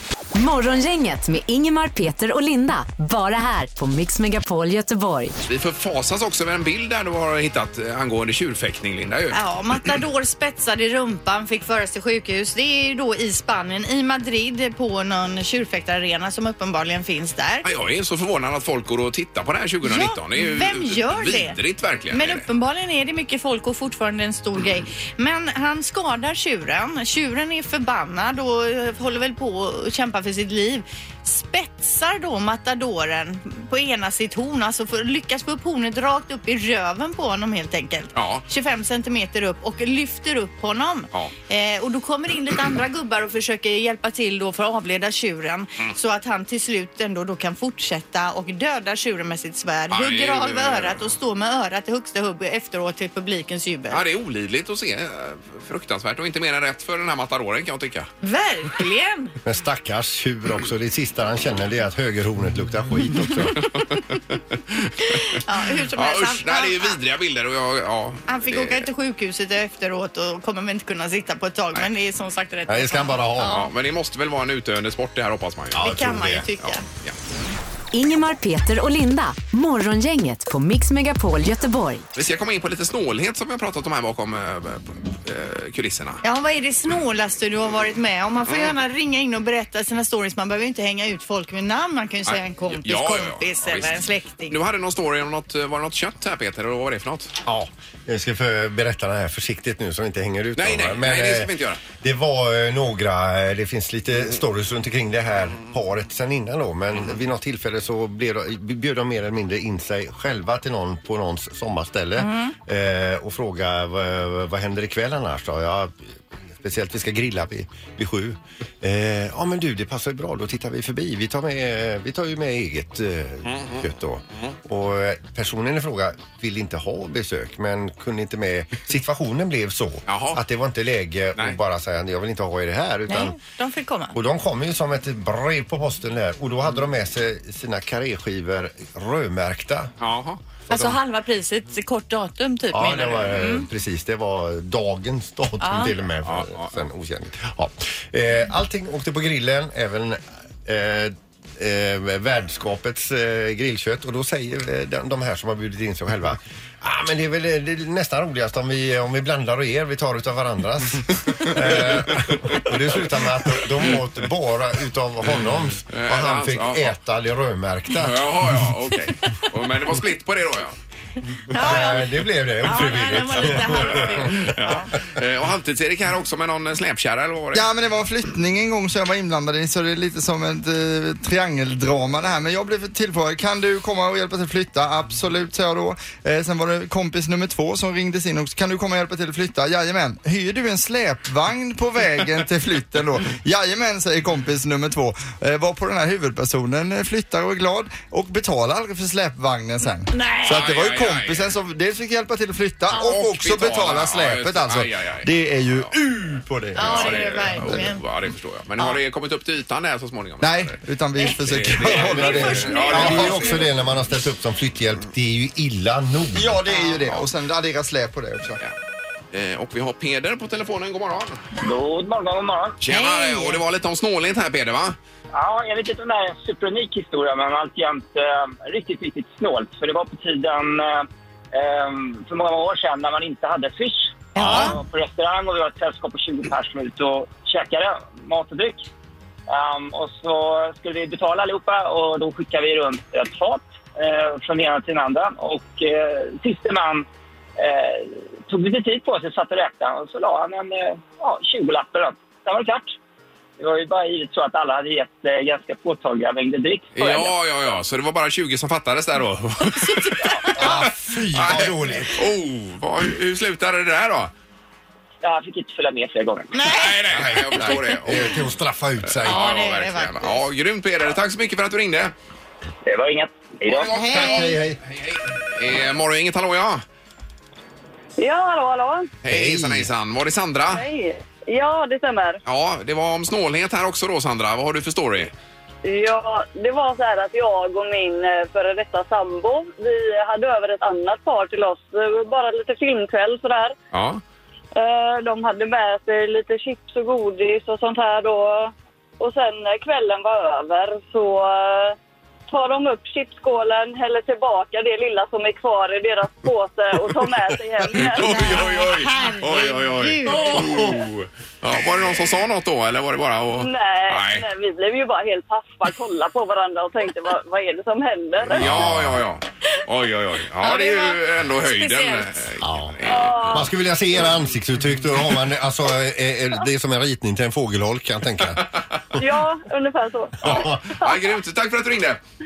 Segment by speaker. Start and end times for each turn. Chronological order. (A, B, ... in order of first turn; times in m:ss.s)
0:00.3-0:05.4 A
0:05.5-0:09.4 B
0:09.3-0:17.7 C
0:17.6-0:22.5 B
0:19.8-0:21.6 C
0:22.1-0:54.0 C
0:38.1-0:38.5 B
0:49.9-0:51.1 B
0:53.9-0:58.1 B
0:58.2-0:59.4 C
0:59.4-1:03.6 D
1:04.7-1:05.3 B
1:05.3-1:07.0 C
1:05.9-1:08.9 B
1:08.3-1:13.7 C
1:12.7-1:13.6 D
1:13.4-1:17.2 B
1:15.7-1:16.5 D
1:15.8-1:16.8 C
1:17.9-1:22.0 A
1:22.2-1:26.2 B
1:26.2-1:34.6 C
1:28.5-1:28.8 B
1:32.3-1:37.4 B
1:37.5-2:13.4 D
1:40.6-1:41.8 B
1:52.2-1:52.6 C
2:03.5-2:03.8 B
2:10.1-2:10.4 B
2:13.1-2:14.2 C
2:14.1-2:19.9 D
2:20.0-2:20.9 B
2:20.7-2:23.7 C
2:22.7-2:48.6 D
2:25.6-2:25.9 C
2:26.2-2:26.8 B
2:41.4-2:42.6 B
2:45.9-2:47.0 B
2:48.0-2:50.8 B
2:51.5-2:54.9 C
2:51.5-2:54.5 D
2:53.4-2:57.7 B
2:57.5-3:25.9 E
3:20.1-3:20.5 C
3:20.4-3:21.5 B
3:22.9-3:26.0 B
3:26.2-3:27.8 D
3:26.7-3:33.6 B
3:26.8-3:28.0 C
3:30.4-3:33.3 E
3:31.9-3:36.6 D
3:32.0-3:33.6 C
3:36.4-3:38.6 E
3:39.3-3:41.4 B
3:41.6-3:42.8 F
3:42.8-3:45.0 B
3:42.9-3:43.6 C
3:45.3-3:58.9 F
3:54.4-3:54.8 C
3:54.4-3:54.7 D
3:59.5-4:07.1 F
4:07.6-4:13.0 F
4:13.6-4:17.4 F
4:17.0-4:24.3 B
4:19.8-4:20.9 C
4:20.6-4:22.3 D
4:25.2-4:26.7 F
4:26.5-4:27.8 C
4:26.7-4:28.3 B
4:27.1-4:29.5 D
4:29.0-4:32.1 B
4:29.2-4:30.4 C
4:32.9-4:33.9 F
4:33.7-4:36.8 B
4:33.9-4:34.6 C
4:34.1-4:34.8 D
4:38.2-4:39.1 G
4:39.2-4:40.9 B
4:39.3-4:39.9 D
4:40.7-4:42.4 G
4:42.4-4:45.3 B
4:45.8-4:53.8 G
4:53.9-4:54.2 B
4:54.8-5:01.9 G
5:02.5-5:08.6 G
5:07.0-5:14.5 B
5:08.2-5:11.0 C
5:13.6-5:18.7 G
5:18.5-5:23.7 B
5:18.5-5:19.2 D
5:20.6-5:22.4 C
5:22.6-5:28.7 D
5:23.1-5:23.7 G
5:29.1-5:30.6 G
5:30.4-5:30.8 D
5:30.4-5:32.2 B